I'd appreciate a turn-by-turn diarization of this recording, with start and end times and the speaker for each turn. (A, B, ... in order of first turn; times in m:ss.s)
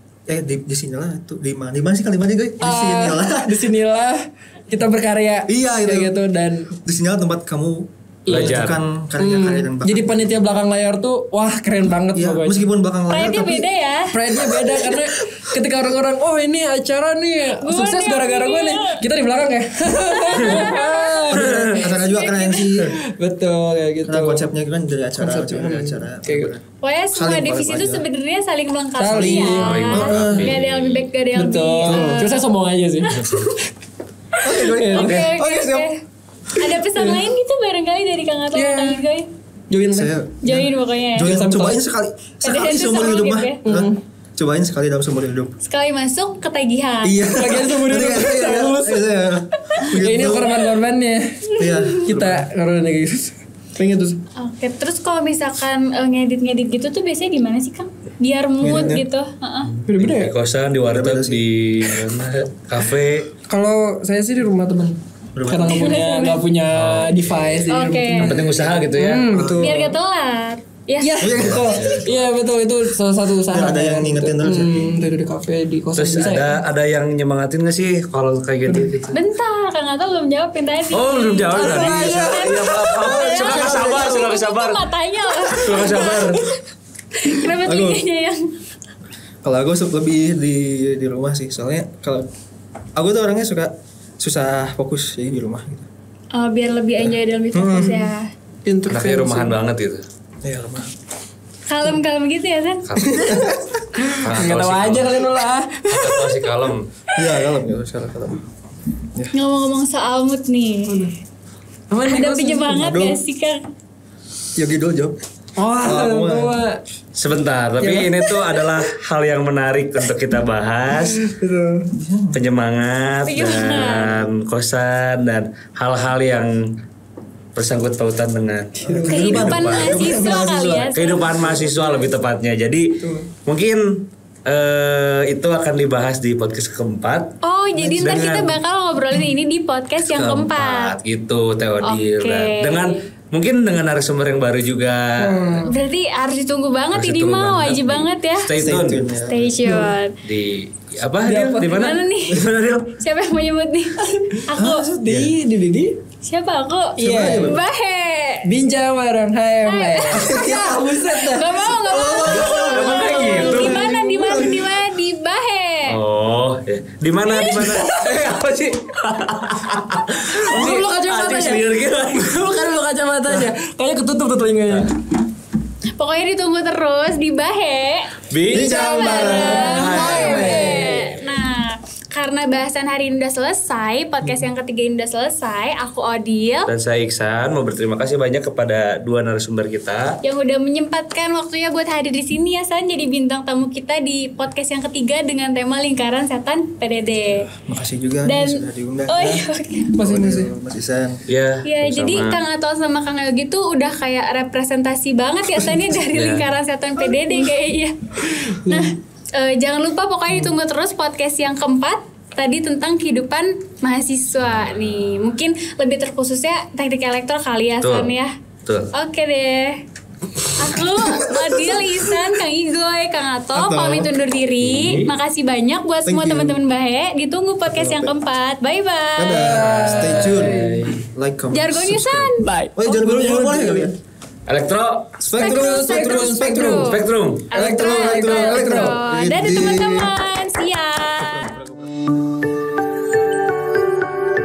0:00.3-0:03.7 A
0:02.6-0:06.7 B
0:05.5-0:06.1 A
0:06.8-0:10.3 A
0:08.3-0:12.6 B
0:08.3-0:08.8 C
0:12.1-0:13.7 A
0:13.1-0:14.2 D
0:14.1-0:21.9 B
0:14.6-0:15.3 A
0:17.6-0:19.0 D
0:20.1-0:22.8 D
0:21.3-0:23.0 A
0:22.8-0:24.5 B
0:24.1-0:28.0 A
0:25.2-0:26.5 B
0:26.8-0:32.4 D
0:29.0-0:30.5 B
0:29.1-0:30.6 A
0:29.6-0:31.0 C
0:31.4-0:33.7 B
0:31.8-0:32.3 A
0:33.2-0:33.4 C
0:34.4-0:35.3 B
0:34.4-0:35.9 A
0:34.9-0:36.0 D
0:36.6-0:39.3 D
0:36.8-0:37.3 B
0:38.5-0:39.1 B
0:39.7-0:40.1 B
0:39.9-0:45.6 A
0:40.4-0:41.4 D
0:41.2-0:41.8 B
0:42.4-0:43.6 D
0:43.6-0:44.0 B
0:45.6-0:47.3 D
0:47.0-0:50.7 A
0:47.3-0:49.1 B
0:49.7-0:54.2 B
0:51.6-0:52.0 D
0:51.6-0:52.5 A
0:54.4-0:59.7 D
0:58.6-0:59.0 A
0:59.7-1:03.3 C
0:59.9-1:00.3 B
1:00.9-1:01.4 A
1:03.5-1:09.9 B
1:05.4-1:05.9 A
1:05.6-1:06.4 D
1:06.7-1:07.7 C
1:07.7-1:08.4 D
1:08.2-1:09.3 C
1:09.3-1:10.0 A
1:09.6-1:11.3 D
1:11.0-1:16.6 B
1:11.2-1:12.0 A
1:11.4-1:12.2 C
1:13.5-1:15.1 A
1:16.0-1:19.2 C
1:18.7-1:18.9 B
1:19.1-1:26.6 D
1:20.9-1:24.9 C
1:21.5-1:23.2 B
1:23.0-1:24.3 A
1:25.4-1:26.4 C
1:27.2-1:28.5 D
1:27.5-1:28.0 A
1:29.4-1:32.3 A
1:33.0-1:35.9 A
1:36.3-1:38.3 D
1:37.0-1:38.1 A
1:38.6-1:39.5 B
1:38.9-1:40.0 C
1:40.4-1:40.9 A
1:41.7-1:42.8 D
1:42.9-1:43.4 C
1:43.0-1:43.8 A
1:44.0-1:46.7 B
1:44.1-1:45.3 C
1:45.9-1:46.9 C
1:47.2-1:48.4 A
1:49.3-1:51.1 D
1:50.9-1:51.1 B
1:51.9-1:53.0 B
1:52.1-1:53.6 D
1:52.8-1:53.2 A
1:54.6-1:55.2 A
1:55.6-1:56.8 B
1:55.8-1:56.6 A
1:57.2-2:01.2 C
1:57.8-1:58.6 B
2:00.9-2:01.9 B
2:01.9-2:02.4 A
2:02.3-2:06.6 C
2:03.3-2:04.2 D
2:07.6-2:10.0 C
2:08.8-2:09.4 B
2:08.8-2:10.9 A
2:09.1-2:11.3 D
2:10.9-2:12.9 C
2:13.0-2:13.3 B
2:13.5-2:18.6 C
2:17.4-2:20.9 D
2:20.0-2:25.6 C
2:21.8-2:23.1 D
2:25.2-2:25.8 B
2:25.6-2:28.5 D
2:26.9-2:29.0 C
2:28.6-2:29.9 A
2:29.3-2:30.2 D
2:30.2-2:32.9 C
2:31.2-2:31.7 B
2:31.6-2:32.4 D
2:33.0-2:34.9 D
2:34.1-2:36.0 B
2:34.6-2:35.3 A
2:36.2-2:38.5 D
2:37.0-2:37.6 B
2:37.0-2:37.6 A
2:38.4-2:44.5 B
2:39.6-2:46.0 D
2:40.1-2:40.8 A
2:41.9-2:43.2 A
2:42.3-2:43.9 C
2:44.2-2:44.5 A
2:45.9-2:52.5 C
2:47.3-2:48.2 B
2:50.3-2:54.9 B
2:56.0-3:06.7 D
2:58.3-3:00.8 C
2:58.5-3:00.7 A
2:58.9-3:01.2 B
3:06.7-3:10.2 C
3:10.2-3:17.5 D
3:17.5-3:19.5 A
3:18.2-3:20.0 D
3:20.0-3:20.5 B
3:20.0-3:21.2 A
3:21.3-3:22.4 C
3:21.6-3:38.3 D
3:26.0-3:26.5 C
3:28.4-3:29.0 B
3:34.5-3:35.2 C
3:37.8-3:38.1 C
3:38.6-3:38.9 C
3:38.9-3:39.8 D
3:40.6-3:49.6 D
3:43.5-3:44.2 A
3:44.6-3:45.1 C
3:46.0-3:46.6 A
3:47.7-3:48.1 A
3:49.2-3:54.0 A
3:49.3-3:50.9 B
3:49.6-3:51.0 C
3:51.5-3:52.7 D
3:52.8-3:53.9 B
3:54.5-3:55.2 C
3:55.2-3:57.0 A
3:55.2-3:56.9 B
3:55.3-3:57.0 D
3:56.7-3:57.5 C
3:57.5-4:01.4 D
3:57.5-3:59.0 B
3:57.5-4:00.1 A
4:01.2-4:01.9 A